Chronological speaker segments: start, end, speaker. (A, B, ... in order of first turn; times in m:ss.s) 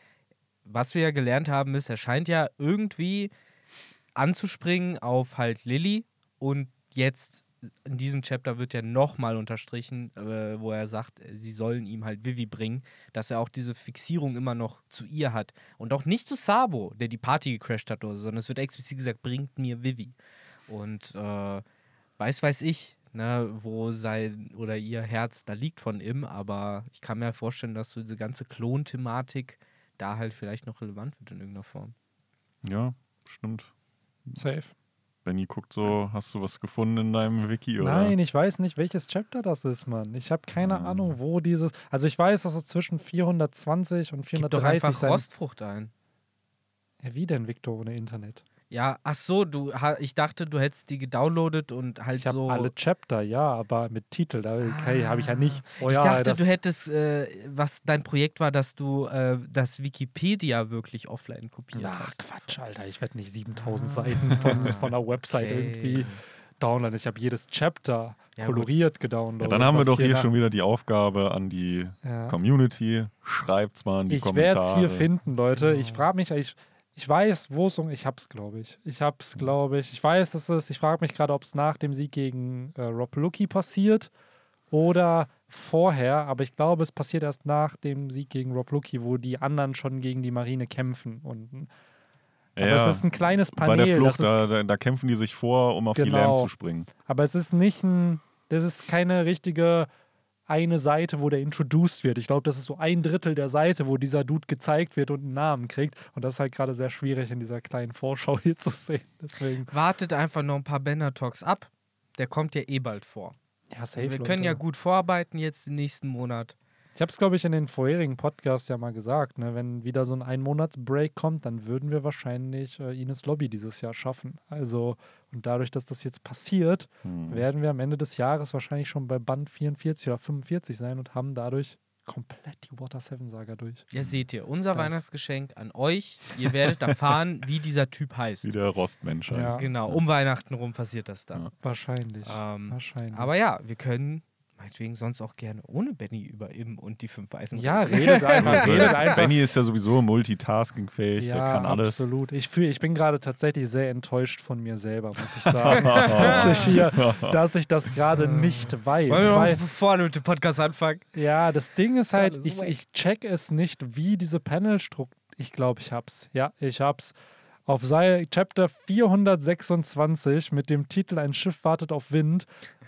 0:00.6-0:03.3 A
0:04.2-0:20.1 A
0:20.7-0:21.6 A
0:22.2-0:31.9 A
0:32.6-0:33.7 B
0:34.3-0:34.7 C
0:35.2-0:38.2 B
0:37.8-0:45.2 C
0:40.6-0:41.2 B
0:44.3-0:45.9 A
0:47.0-0:48.4 C
0:48.7-0:52.7 A
0:52.2-0:56.4 C
0:54.6-1:02.2 A
1:01.7-1:10.3 C
1:03.7-1:06.2 A
1:08.4-1:08.7 A
1:09.4-1:15.1 B
1:12.0-1:12.4 C
1:14.1-1:24.1 C
1:15.5-1:16.0 A
1:24.7-1:31.7 C
1:32.6-1:36.9 B
1:32.6-1:34.5 C
1:35.9-1:36.5 C
1:37.0-1:39.9 C
1:40.5-1:49.7 C
1:49.7-1:53.3 A
1:53.7-1:54.6 C
1:54.0-1:56.5 A
1:57.0-2:13.9 C
2:07.0-2:07.4 B
2:13.9-2:18.5 A
2:14.7-2:15.0 C
2:18.4-2:20.0 B
2:19.3-2:19.6 C
2:19.5-2:21.5 A
2:21.6-2:23.3 C
2:22.2-2:29.3 A
2:27.5-2:29.4 C
2:28.4-2:32.0 B
2:31.2-2:39.6 C
2:35.4-2:37.4 B
2:35.8-2:36.8 A
2:38.2-2:41.1 A
2:41.1-2:47.1 C
2:42.1-2:42.7 A
2:47.6-2:52.5 C